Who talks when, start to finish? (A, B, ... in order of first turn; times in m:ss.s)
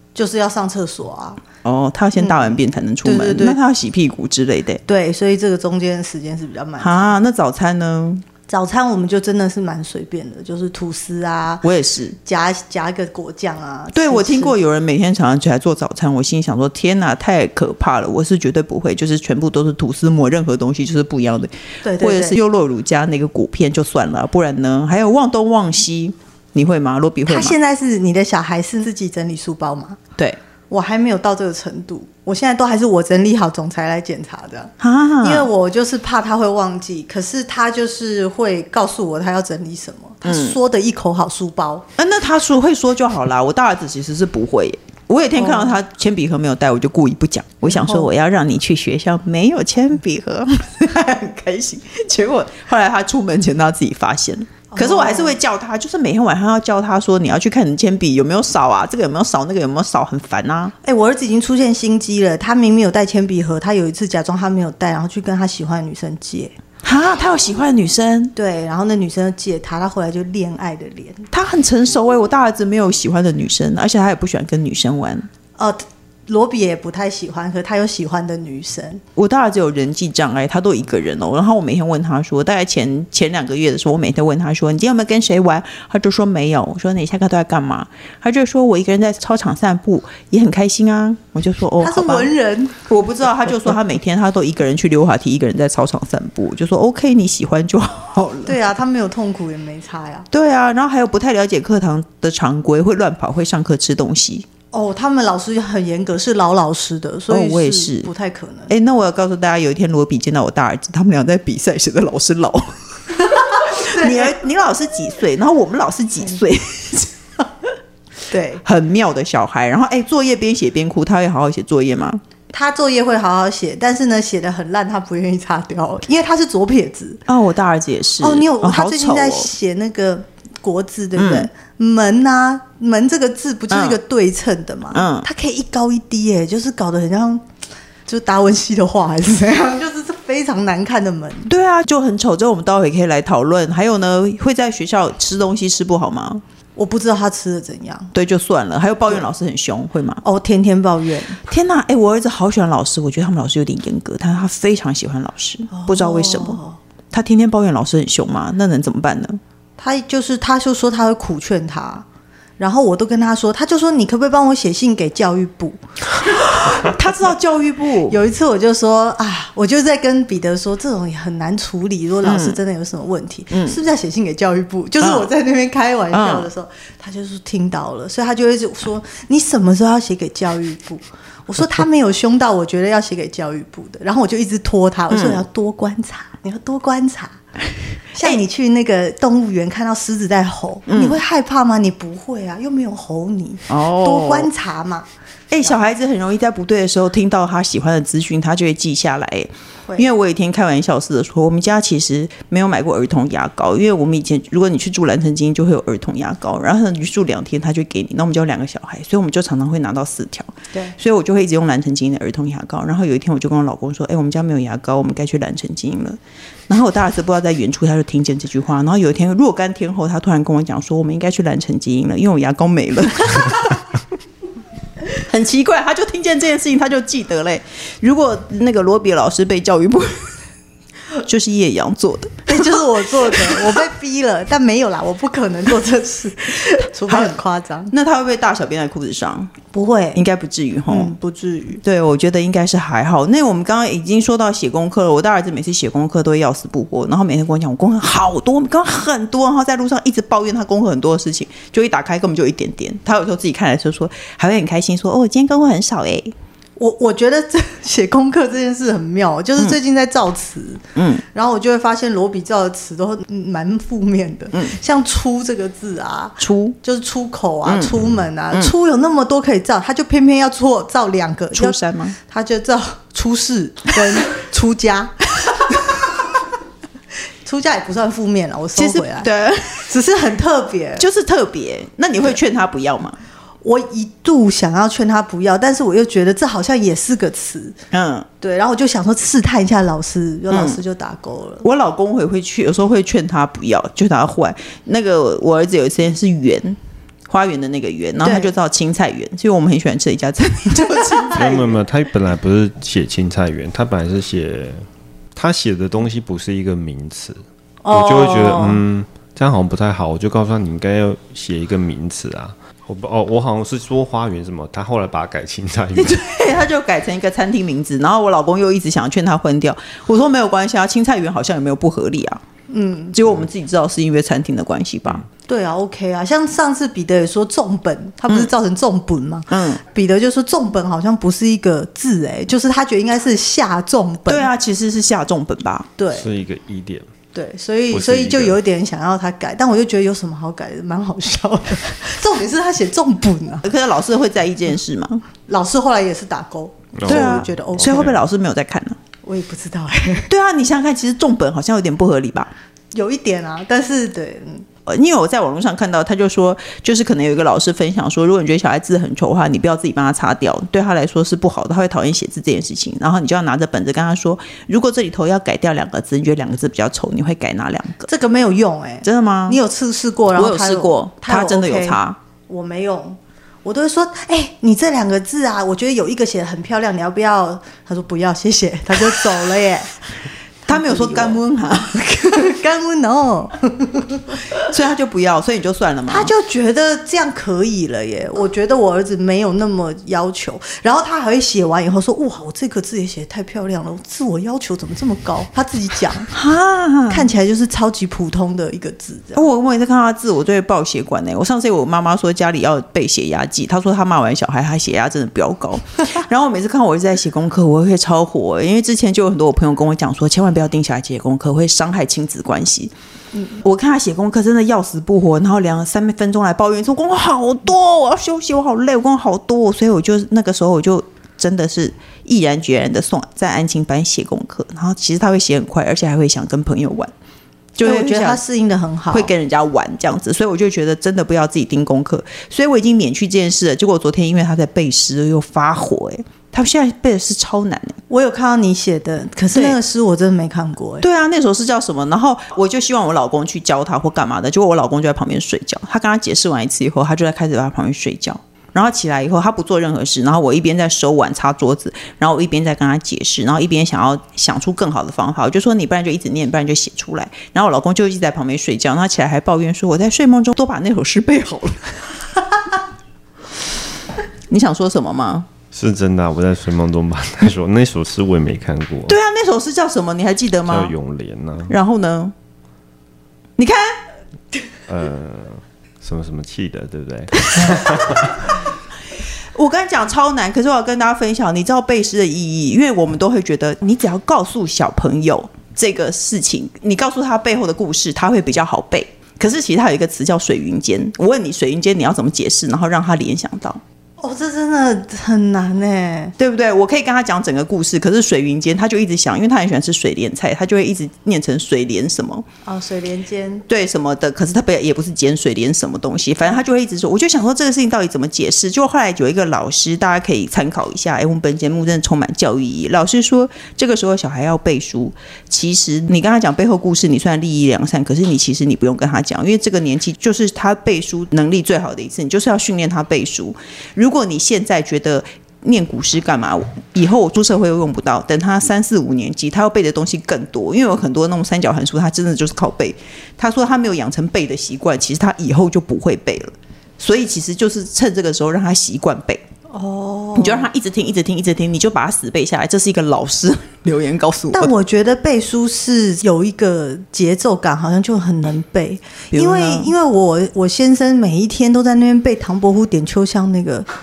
0:00.2-0:01.4 A
0:01.6-0:04.8 B
0:02.2-0:03.6 A
0:04.9-0:07.1 A
0:06.8-0:08.2 B
0:08.5-0:11.6 A
0:11.6-0:12.2 B
0:12.2-0:14.6 A
0:13.9-0:27.6 B
0:21.8-0:22.4 A
0:27.3-0:30.0 A
0:30.7-0:41.9 A
0:34.8-0:35.5 B
0:40.2-0:40.6 B
0:42.0-1:00.7 B
0:45.4-0:45.8 A
0:47.6-0:48.1 A
0:54.7-0:55.4 A
1:00.8-1:06.5 A
1:06.8-1:08.3 B
1:08.4-1:11.3 A
1:11.3-1:15.3 B
1:15.6-1:19.0 A
1:19.2-1:32.3 B
1:31.8-1:32.8 A
1:32.9-1:38.6 B
1:38.4-1:40.3 A
1:40.3-1:44.5 B
1:44.7-1:48.7 A
1:47.3-1:48.1 B
1:48.7-1:57.1 B
1:53.3-1:54.3 A
1:58.3-1:58.6 A
1:58.6-2:02.2 B
2:02.5-2:07.2 A
2:07.3-2:09.5 B
2:08.2-2:17.5 A
2:11.2-2:11.5 B
2:13.7-2:14.0 B
2:14.9-2:15.3 B
2:18.1-2:21.5 A
2:21.5-2:26.4 B
2:26.8-2:28.1 A
2:28.1-2:30.2 B
2:30.2-2:31.4 A
2:31.4-2:36.6 B
2:35.7-2:36.8 A
2:37.1-2:39.4 B
2:39.8-2:42.1 A
2:42.6-2:45.8 A
2:46.4-2:48.2 B
2:48.1-3:07.4 A
2:52.2-2:52.6 B
2:53.5-2:53.8 B
2:55.0-2:55.3 B
2:56.1-2:56.5 B
3:05.1-3:05.4 B
3:08.1-3:15.1 A
3:10.9-3:11.2 B
3:13.7-3:14.5 B
3:15.5-3:36.2 B
3:36.7-3:43.8 B
3:45.2-3:50.3 B
3:51.2-3:52.8 B
3:52.5-3:57.9 A
3:53.3-3:53.8 B
3:57.1-3:57.4 B
3:57.9-3:59.5 B
3:59.7-4:00.2 A
4:00.1-4:01.1 B
4:00.9-4:01.8 A
4:01.8-4:16.3 B
4:16.8-4:36.3 A
4:21.0-4:21.2 B
4:26.4-4:26.8 B
4:27.6-4:28.0 B
4:31.5-4:32.2 B
4:37.4-4:39.3 A
4:38.8-4:39.9 B
4:39.9-4:41.0 A
4:41.0-4:43.2 B
4:43.6-4:47.8 A
4:47.9-4:48.3 B
4:48.4-4:51.6 A
4:50.5-4:50.8 B
4:51.6-4:56.8 B
4:57.3-5:01.7 B
4:58.2-4:58.5 A
5:01.0-5:01.5 A
5:01.3-5:16.2 C
5:07.8-5:08.8 A
5:16.0-5:22.4 B
5:22.7-5:23.2 A
5:23.1-5:25.2 B
5:25.5-5:34.5 A
5:29.5-5:29.8 B
5:34.3-5:35.9 B
5:36.0-5:36.3 A
5:36.1-5:37.1 C
5:37.3-5:43.7 A
5:37.9-5:38.6 C
5:43.6-5:45.2 B
5:45.4-5:48.2 A
5:47.0-5:48.2 C
5:47.1-5:49.0 B
5:49.2-5:50.3 A
5:50.3-5:52.5 B
5:52.9-5:54.7 A
5:54.9-6:08.1 B
6:08.1-6:19.9 A
6:09.0-6:09.6 B
6:10.4-6:12.2 B
6:20.7-6:21.4 A
6:20.7-6:22.5 B
6:22.2-6:24.4 A
6:24.6-6:26.3 B
6:26.1-6:36.3 A
6:36.3-6:37.3 B
6:37.1-6:39.4 A
6:39.4-6:52.9 B
6:53.5-7:07.1 B
7:07.8-7:08.4 B
7:07.8-7:09.3 A
7:09.1-7:18.0 B
7:18.1-7:21.0 A
7:21.0-7:42.0 B
7:44.5-7:45.5 B
7:45.7-7:49.2 C
7:49.1-7:50.9 B
7:50.7-7:51.7 C
7:51.7-7:52.3 B
7:53.6-7:53.9 B
7:54.9-7:58.5 C
7:59.6-8:13.8 B
8:14.2-8:16.4 A
8:16.4-8:22.5 B
8:22.6-8:23.7 A
8:23.7-8:59.4 B
8:59.7-9:00.7 A
9:00.4-9:04.7 B
9:04.5-9:13.9 A
9:09.3-9:09.9 B